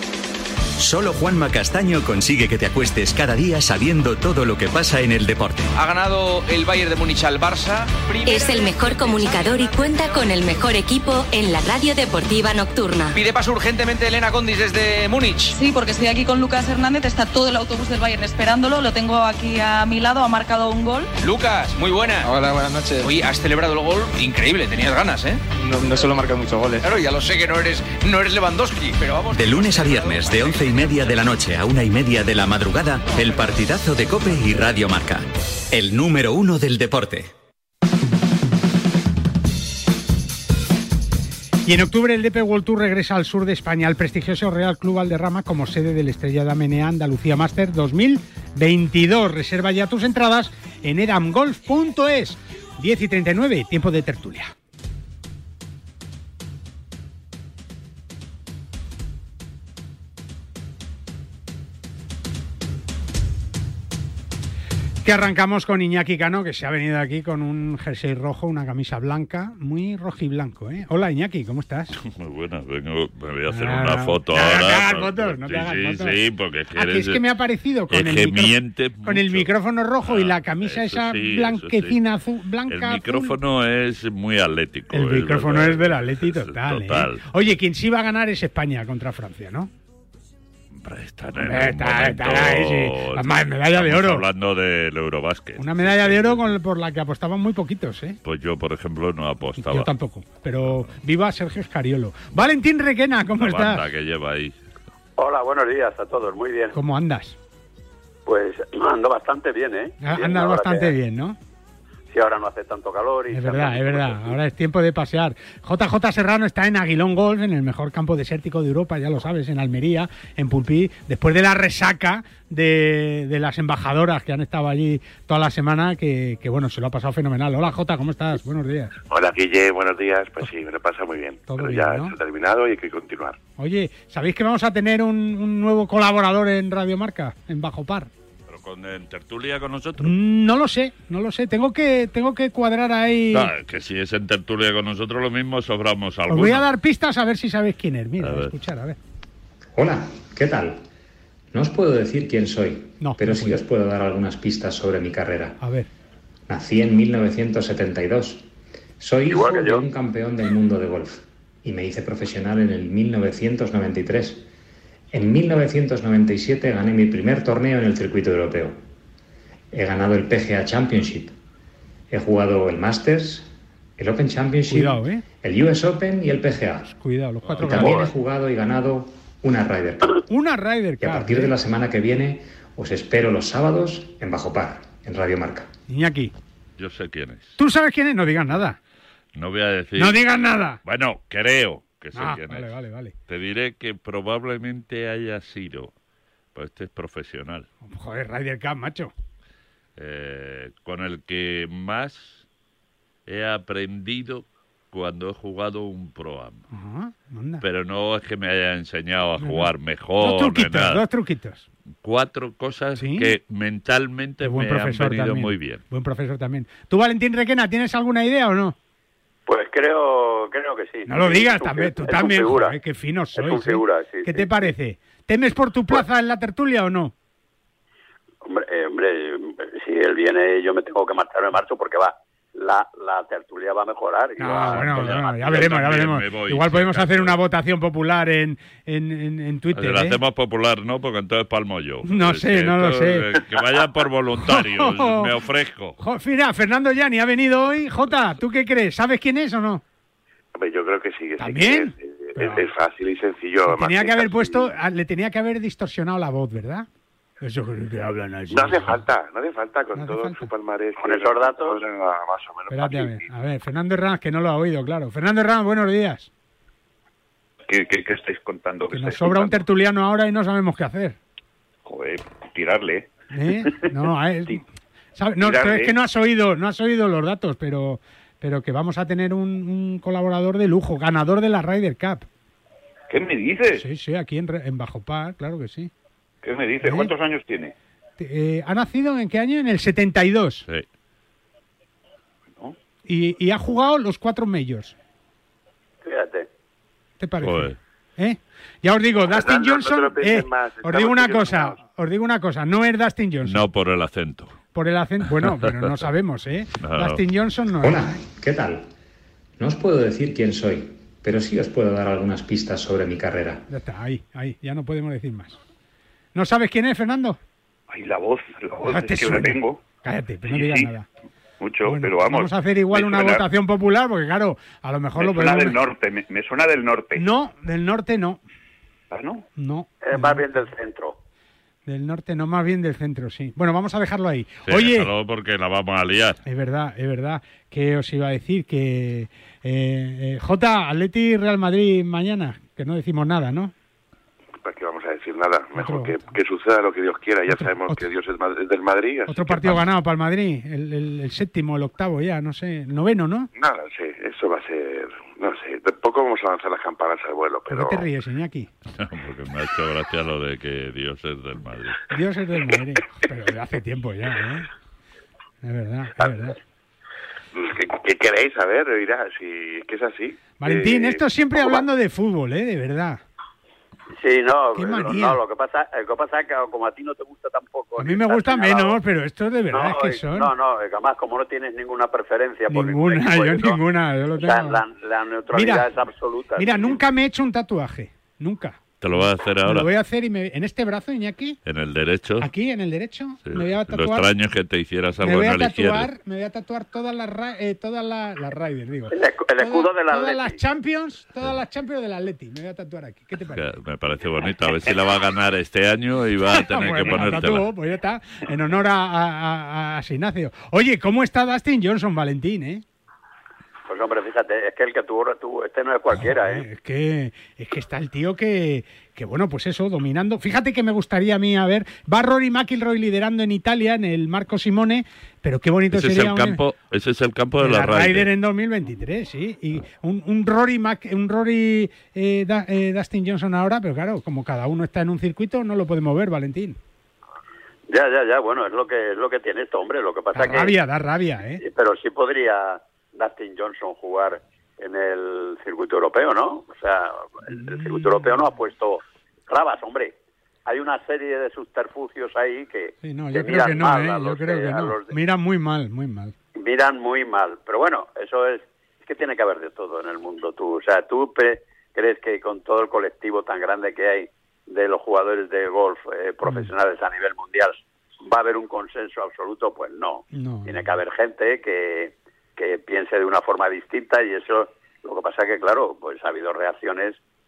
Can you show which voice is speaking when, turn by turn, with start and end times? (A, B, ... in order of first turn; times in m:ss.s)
0:00.8-0:05.7 A
0:05.8-0:10.2 B
0:08.2-0:13.2 C
0:13.1-0:15.5 B
0:15.5-0:21.1 D
0:21.2-0:31.0 B
0:29.3-0:37.3 A
0:41.7-0:54.5 E
1:05.0-1:11.9 E
1:11.9-1:17.2 F
1:13.5-1:16.2 E
1:16.7-1:23.4 E
1:17.9-1:19.5 F
1:20.0-1:22.0 F
1:22.7-1:27.3 F
1:24.9-1:29.7 E
1:30.8-1:36.6 F
1:31.4-1:34.3 E
1:35.6-1:38.2 E
1:38.2-1:39.9 F
1:39.6-1:43.9 E
1:40.6-1:41.0 F
1:43.4-1:44.6 F
1:45.2-1:46.8 G
1:46.7-1:47.4 E
1:48.3-1:50.9 G
1:50.0-1:51.4 E
1:52.1-1:54.4 G
1:53.3-2:08.9 E
2:09.1-2:13.4 H
2:11.5-2:12.2 E
2:13.6-2:18.1 E
2:18.5-2:20.2 F
2:20.0-2:23.5 E
2:23.3-2:26.7 F
2:26.3-2:29.0 E
2:28.2-2:28.5 F
2:29.8-2:30.8 I
2:31.5-2:35.6 I
2:33.0-2:33.6 E
2:35.6-2:35.9 E
2:36.5-2:38.4 I
2:39.0-2:44.4 I
2:39.3-2:39.8 J
2:45.1-2:48.8 I
2:49.7-2:51.3 I
2:52.1-2:56.9 I
2:54.7-2:55.2 E
2:56.9-2:58.1 E
2:57.5-2:57.7 F
2:57.6-3:00.2 I
3:00.3-3:01.5 E
3:01.0-3:05.7 I
3:05.9-3:06.3 E
3:06.8-3:07.6 F
3:07.6-3:08.8 E
3:09.4-3:10.2 F
3:10.0-3:10.8 E
3:10.8-3:12.8 F
3:12.1-3:13.2 E
3:13.3-3:15.9 F
3:16.6-3:17.7 F
3:17.8-3:19.1 E
3:20.0-3:22.4 F
3:23.3-3:26.6 F
3:26.7-3:27.6 E
3:27.6-3:31.0 F
3:29.4-3:31.7 E
3:32.0-3:35.8 F
3:33.0-3:33.4 E
3:34.4-3:38.8 E
3:39.5-3:42.8 G
3:41.1-3:47.1 E
3:43.4-3:44.7 G
3:48.4-3:55.7 G
3:54.4-4:00.2 E
3:54.5-3:57.4 F
3:59.7-4:06.0 F
4:02.0-4:03.3 E
4:04.4-4:05.4 E
4:06.0-4:09.8 E
4:10.6-4:14.7 H
4:11.4-4:12.7 E
4:13.7-4:16.9 E
4:17.4-4:19.0 E
4:18.5-4:23.3 H
4:20.0-4:20.5 E
4:21.0-4:21.8 G
4:22.7-4:26.3 E
4:27.7-4:29.6 J
4:28.9-4:31.2 E
4:31.8-4:33.1 J
4:33.3-4:34.6 E
4:33.6-4:33.9 J
4:35.2-4:42.3 E
4:35.4-4:36.0 J
4:43.1-4:43.8 J
4:43.7-4:45.9 E
4:46.4-4:47.7 J
4:46.8-4:47.1 E
4:48.2-4:50.6 E
4:53.1-4:55.0 E
4:56.0-4:56.5 G
4:57.2-5:03.7 E
4:57.4-4:57.8 F
4:59.2-5:01.8 H
5:03.4-5:04.6 F
5:04.7-5:08.0 E
5:06.8-5:07.2 F
5:07.8-5:08.9 I
5:09.6-5:13.6 I
5:13.7-5:15.6 E
5:16.4-5:17.4 E
5:17.9-5:19.8 J
5:18.8-5:21.1 E
5:20.5-5:20.9 J
5:21.6-5:23.5 J
5:21.9-5:25.8 E
5:25.2-5:27.2 J
5:27.2-5:28.4 E
5:29.1-5:29.4 J
5:29.6-5:30.5 E
5:30.0-5:31.2 G
5:31.9-5:35.1 E
5:34.7-5:36.4 F
5:36.4-5:43.7 E
5:44.6-5:49.8 H
5:45.8-5:46.2 E
5:47.5-5:48.0 E
5:49.3-5:53.5 E
5:53.6-5:58.0 H
5:57.7-5:58.7 E
5:59.0-6:02.0 F
6:02.1-6:04.7 E
6:05.6-6:06.6 E
6:07.6-6:11.8 H
6:10.6-6:13.2 E
6:14.2-6:19.0 G
6:14.8-6:15.4 E
6:18.0-6:20.5 E
6:19.7-6:23.8 G
6:22.7-6:24.8 E
6:24.4-6:27.0 G
6:25.5-6:25.9 E
6:26.6-6:31.6 E
6:29.0-6:29.9 F
6:31.7-6:32.5 F
6:32.4-6:34.3 E
6:33.5-6:36.1 F
6:35.2-6:43.6 E
6:39.1-6:40.6 G
6:43.5-6:47.7 F
6:46.5-6:52.8 E
6:53.9-6:56.6 G
6:56.1-7:06.6 E
7:05.9-7:08.3 F
7:07.6-7:16.8 E
7:17.9-7:20.7 G
7:20.4-7:21.6 E
7:21.6-7:30.1 G
7:27.5-7:28.4 E
7:30.7-7:35.1 G
7:33.0-7:36.3 E
7:36.6-7:57.2 G
7:46.4-7:46.7 E
7:50.3-7:51.0 E